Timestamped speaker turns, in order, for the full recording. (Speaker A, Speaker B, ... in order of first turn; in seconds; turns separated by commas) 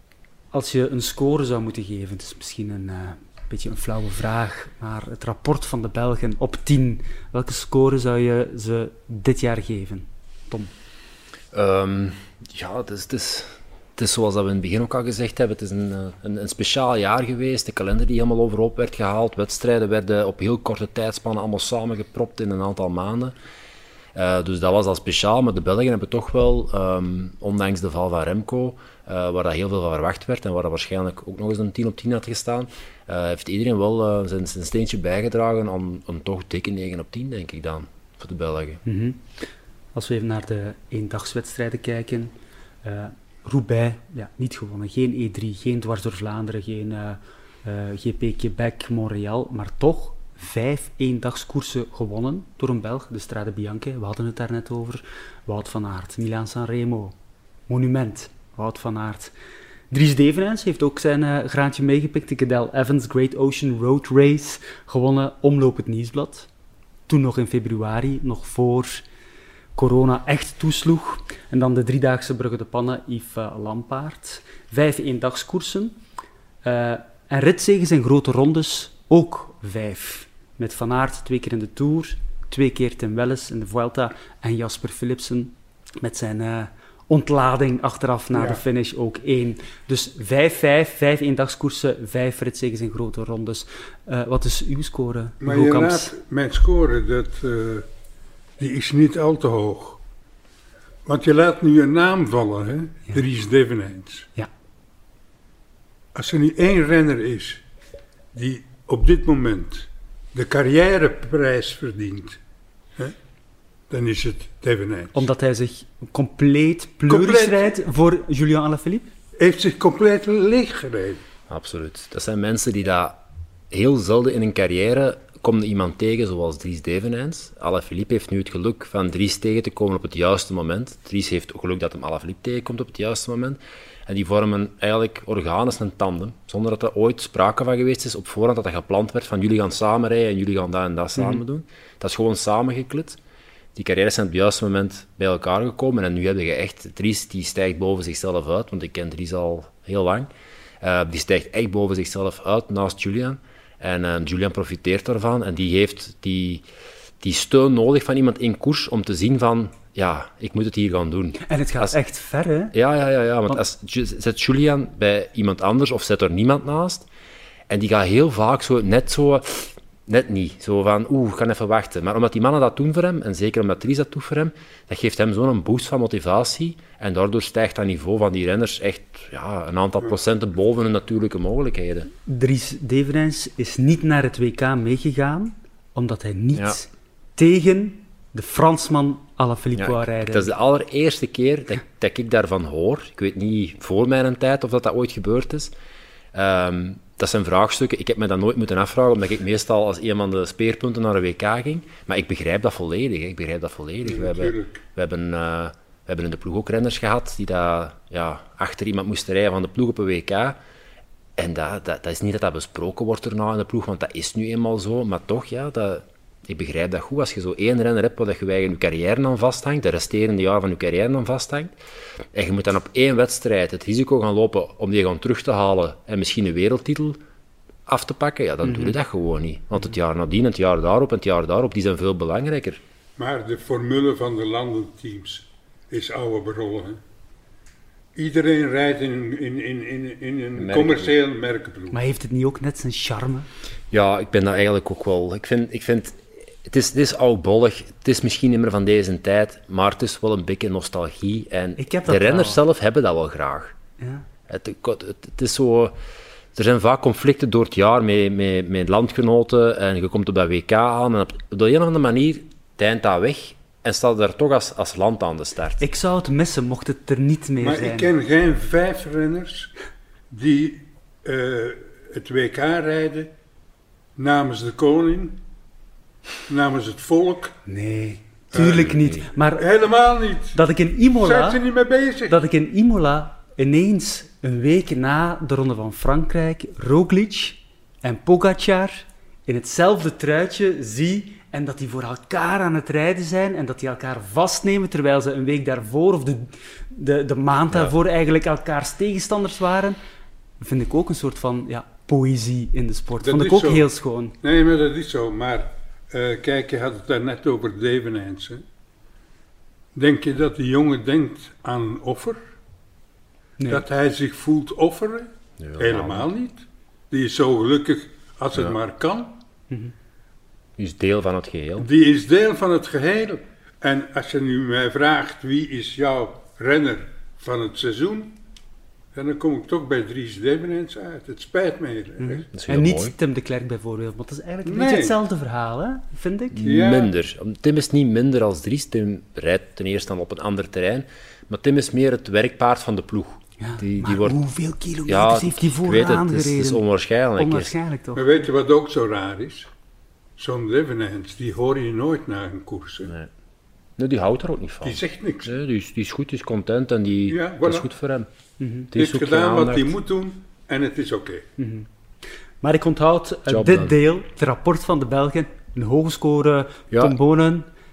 Speaker A: 0.5-10.7, Speaker B: 11.5-23.3, Speaker B: 24.1-38.8, Speaker A: 38.9-39.2, Speaker A: 40.0-42.3, Speaker A: 42.8-57.1, Speaker A: 57.7-59.3, Speaker A: 59.9-66.5, Speaker A: 67.1-69.0, Speaker A: 69.8-76.0, Speaker A: 76.6-96.1, Speaker C: 88.3-88.6, Speaker C: 95.4-97.9, Speaker C: 98.6-100.0, Speaker C: 101.0-104.3, Speaker C: 106.1-107.6, Speaker C: 108.3-112.4, Speaker C: 113.9-115.3, Speaker A: 115.1-119.1, Speaker C: 117.1-117.8, Speaker C: 119.4-121.2, Speaker B: 121.5-123.2, Speaker B: 123.7-143.2, Speaker B: 143.8-150.3, Speaker B: 150.8-156.6, Speaker B: 157.2-162.0, Speaker A: 161.5-162.7, Speaker B: 162.7-167.1, Speaker B: 167.7-182.1, Speaker A: 182.2-190.5, Speaker B: 189.8-195.7, Speaker B: 196.3-210.6, Speaker C: 204.0-204.8, Speaker B: 211.4-221.8, Speaker B: 222.3-227.2, Speaker B: 227.9-232.8, Speaker A: 228.7-229.0, Speaker C: 233.2-237.0, Speaker C: 238.2-242.0, Speaker B: 240.6-241.2, Speaker A: 241.9-243.5, Speaker B: 243.9-253.8, Speaker A: 251.8-252.6, Speaker A: 254.0-254.2, Speaker B: 254.5-256.0, Speaker B: 256.5-265.8, Speaker A: 265.8-268.1, Speaker C: 267.6-269.7, Speaker C: 270.3-273.3, Speaker C: 274.2-275.4, Speaker C: 276.5-277.5, Speaker A: 277.7-279.6, Speaker C: 278.5-279.0, Speaker C: 279.5-280.6, Speaker A: 280.5-281.6, Speaker C: 281.2-282.4, Speaker A: 282.3-300.0, Speaker A: 300.6-304.4, Speaker C: 303.2-303.9, Speaker C: 304.4-308.6, Speaker C: 309.9-312.4, Speaker C: 313.7-319.4, Speaker B: 315.6-316.3, Speaker B: 320.8-321.9, Speaker C: 321.8-328.4, Speaker C: 329.1-332.4, Speaker A: 332.2-336.6, Speaker B: 332.5-333.1, Speaker C: 334.6-335.2, Speaker B: 336.5-344.4, Speaker C: 336.6-337.1, Speaker A: 343.6-346.8, Speaker B: 345.1-347.7, Speaker A: 347.4-348.3, Speaker C: 348.1-349.7, Speaker C: 350.4-353.1, Speaker B: 353.1-353.3, Speaker B: 354.0-358.3, Speaker C: 354.8-355.5, Speaker C: 357.3-357.9, Speaker A: 358.6-358.9, Speaker B: 358.9-359.9, Speaker C: 359.0-361.5, Speaker A: 361.6-361.9, Speaker A: 362.6-367.7, Speaker B: 363.5-364.0, Speaker B: 366.9-367.2